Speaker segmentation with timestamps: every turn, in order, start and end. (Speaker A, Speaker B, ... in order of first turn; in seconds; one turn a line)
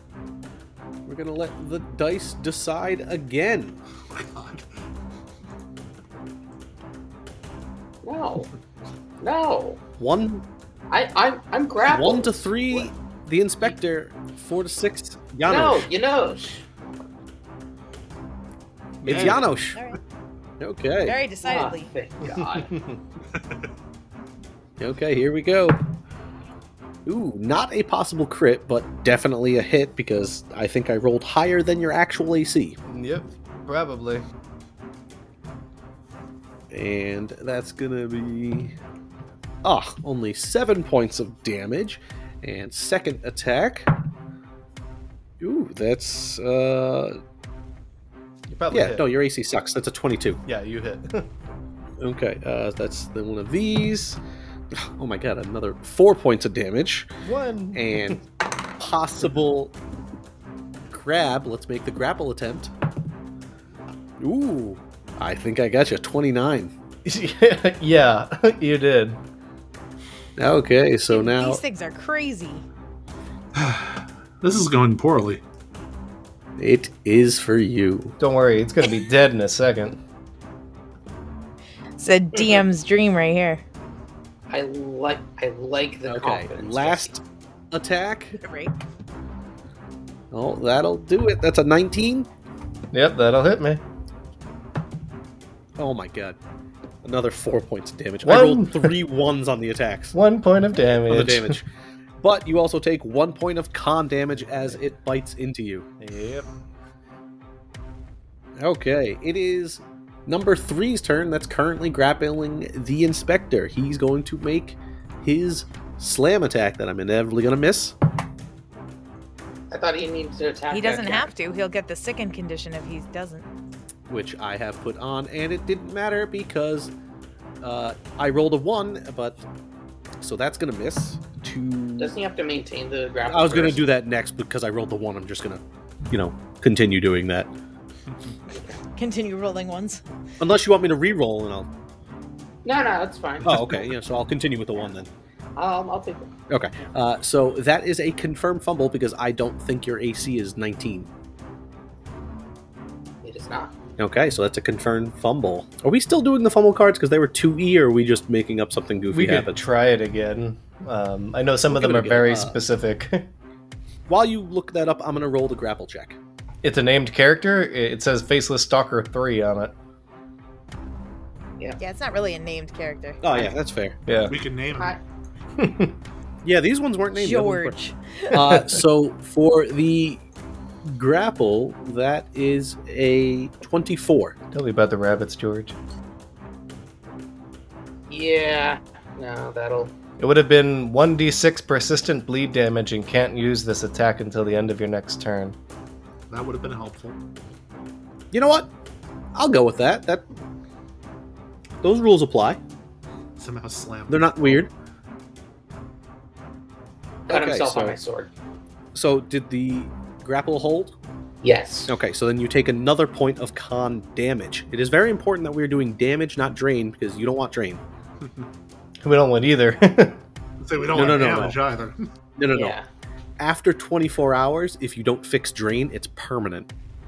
Speaker A: 1.1-3.8
Speaker B: 4.0-4.7
Speaker C: 8.0-8.5
Speaker C: 9.2-9.8
Speaker A: 10.0-10.4
Speaker C: 10.9-12.9
Speaker A: 11.8-15.9
Speaker C: 15.4-16.7
Speaker D: 19.0-19.4
Speaker B: 19.1-19.4
Speaker A: 19.1-19.8
Speaker E: 19.7-20.0
Speaker A: 20.6-21.2
Speaker E: 21.0-21.9
Speaker C: 21.4-22.7
Speaker D: 22.2-23.0
Speaker B: 23.3-23.7
Speaker A: 24.8-25.8
Speaker A: 27.1-32.8
Speaker D: 32.9-34.2
Speaker A: 36.7-38.7
Speaker A: 39.6-43.9
Speaker A: 45.4-47.2
Speaker D: 48.5-49.1
Speaker A: 48.7-50.4
Speaker D: 50.5-51.3
Speaker A: 52.0-54.2
Speaker A: 54.7-57.1
Speaker D: 57.2-58.2
Speaker A: 57.7-58.2
Speaker A: 58.8-59.7
Speaker A: 60.9-62.7
Speaker A: 64.2-66.7
Speaker D: 67.0-69.2
Speaker A: 70.4-71.6
Speaker E: 71.1-72.7
Speaker B: 73.5-75.4
Speaker A: 76.6-78.2
Speaker D: 78.2-80.0
Speaker E: 82.0-83.6
Speaker C: 84.5-87.1
Speaker A: 86.0-88.4
Speaker E: 88.4-88.7
Speaker A: 90.3-92.3
Speaker D: 92.9-93.8
Speaker A: 95.8-96.4
Speaker A: 97.0-100.2
Speaker D: 98.2-99.0
Speaker D: 100.1-101.6
Speaker A: 101.1-101.7
Speaker A: 102.2-105.9
Speaker D: 104.5-104.8
Speaker D: 106.0-106.5
Speaker A: 108.6-117.9
Speaker C: 119.7-121.3
Speaker E: 120.7-123.5
Speaker A: 124.1-126.9
Speaker A: 127.6-129.4
Speaker A: 130.2-132.1
Speaker C: 132.0-133.9
Speaker A: 133.3-137.5
Speaker E: 138.9-140.0
Speaker A: 140.4-141.7
Speaker C: 142.6-143.7
Speaker A: 143.4-145.1
Speaker C: 145.6-146.4
Speaker A: 146.5-151.1
Speaker C: 153.2-153.7
Speaker A: 154.0-159.5
Speaker D: 159.1-163.3
Speaker A: 161.7-162.6
Speaker A: 164.1-166.2
Speaker D: 166.6-169.7
Speaker E: 171.8-173.2
Speaker A: 173.2-174.0
Speaker D: 174.1-174.3
Speaker B: 174.2-175.0
Speaker D: 175.6-175.9
Speaker A: 176.4-177.8
Speaker E: 177.1-178.3
Speaker D: 178.3-178.8
Speaker A: 178.3-180.2
Speaker A: 180.8-184.3
Speaker D: 184.5-185.8
Speaker C: 188.1-189.9
Speaker D: 190.2-195.6
Speaker B: 196.3-197.2
Speaker A: 198.3-198.7
Speaker A: 199.3-200.2
Speaker A: 201.8-202.6
Speaker B: 203.3-204.6
Speaker A: 204.1-204.7
Speaker C: 207.3-208.3
Speaker A: 207.3-208.0
Speaker A: 208.9-210.9
Speaker C: 211.4-211.9
Speaker A: 211.9-217.8
Speaker D: 219.0-220.2
Speaker B: 220.6-222.0
Speaker A: 220.9-221.6
Speaker A: 222.4-222.8
Speaker C: 222.5-222.8
Speaker A: 223.4-226.7